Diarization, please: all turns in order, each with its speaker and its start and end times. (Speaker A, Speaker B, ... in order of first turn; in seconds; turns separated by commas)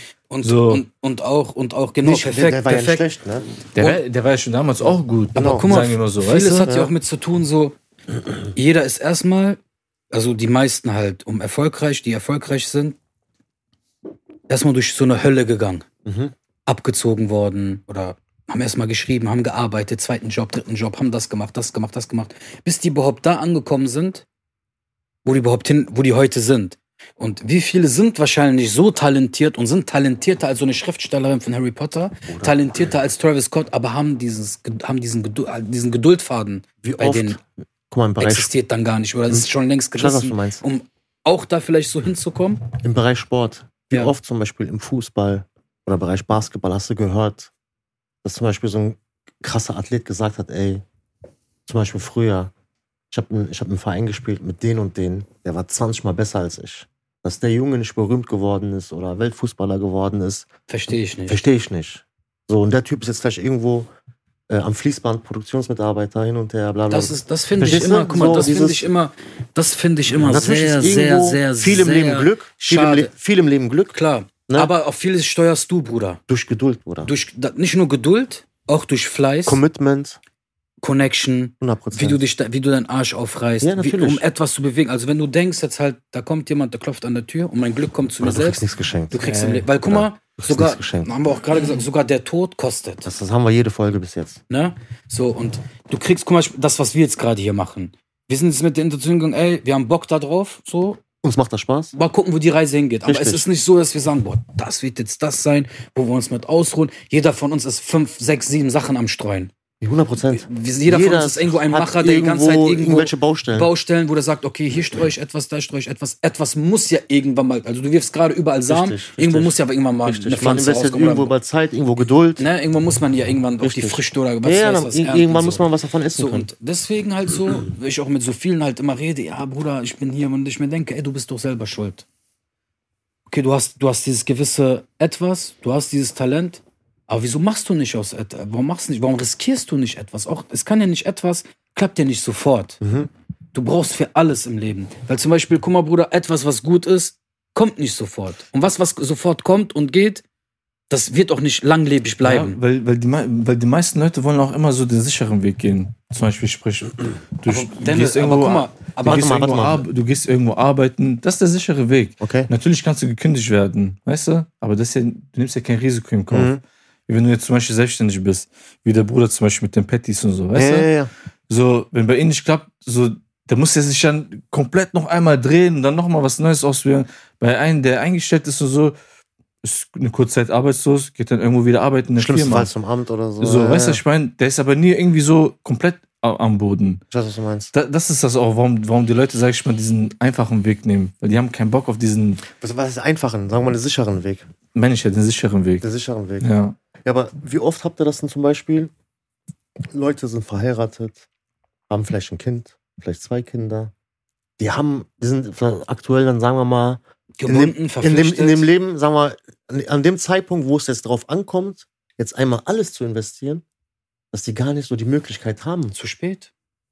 Speaker A: 0.3-3.0, Speaker B: 0.4-0.8, Speaker C: 2.0-3.5, Speaker B: 3.8-6.7, Speaker C: 5.3-5.7, Speaker A: 5.3-7.8, Speaker C: 6.7-6.9, Speaker A: 8.5-9.6, Speaker A: 10.1-13.0, Speaker A: 14.5-15.8, Speaker C: 16.1-16.3, Speaker A: 16.7-24.2, Speaker A: 25.2-37.4, Speaker C: 32.3-32.6, Speaker C: 36.8-37.4, Speaker C: 37.9-38.5, Speaker A: 38.2-42.7, Speaker C: 39.3-40.6, Speaker C: 42.8-47.5, Speaker C: 48.2-50.8, Speaker C: 51.7-52.5, Speaker C: 53.1-60.5, Speaker A: 60.7-61.4, Speaker C: 61.3-63.9, Speaker C: 64.5-68.9, Speaker A: 66.9-73.1, Speaker C: 70.1-74.0, Speaker A: 73.9-76.2, Speaker C: 76.3-77.1, Speaker A: 77.0-79.6, Speaker C: 79.5-80.2, Speaker A: 80.8-93.1, Speaker C: 81.6-82.2, Speaker C: 83.6-84.2, Speaker C: 88.2-91.1, Speaker B: 89.2-89.6, Speaker C: 93.0-94.4, Speaker A: 94.5-101.0, Speaker C: 101.2-101.9, Speaker A: 101.9-109.5, Speaker C: 103.1-103.5, Speaker C: 109.8-113.7, Speaker A: 110.3-121.3, Speaker C: 118.7-122.5, Speaker A: 122.4-125.6, Speaker C: 123.6-126.5, Speaker A: 126.2-132.1, Speaker A: 133.3-142.8, Speaker C: 142.8-143.1, Speaker A: 143.5-150.2, Speaker A: 150.9-152.6, Speaker B: 152.2-166.5, Speaker A: 157.5-159.5, Speaker C: 159.0-159.8, Speaker C: 162.2-162.5, Speaker C: 166.3-166.6, Speaker B: 167.1-170.9, Speaker C: 170.6-171.1, Speaker B: 171.5-179.0, Speaker B: 179.6-182.7, Speaker C: 182.2-184.0, Speaker B: 183.4-187.0, Speaker C: 187.1-187.7, Speaker B: 187.7-192.4, Speaker C: 192.5-194.5, Speaker B: 194.8-195.9, Speaker C: 195.8-196.5, Speaker B: 196.4-196.8, Speaker C: 197.0-198.9, Speaker C: 199.9-201.2, Speaker C: 201.9-203.9, Speaker C: 204.6-213.6, Speaker A: 207.4-208.7, Speaker C: 214.3-215.9, Speaker A: 215.9-216.5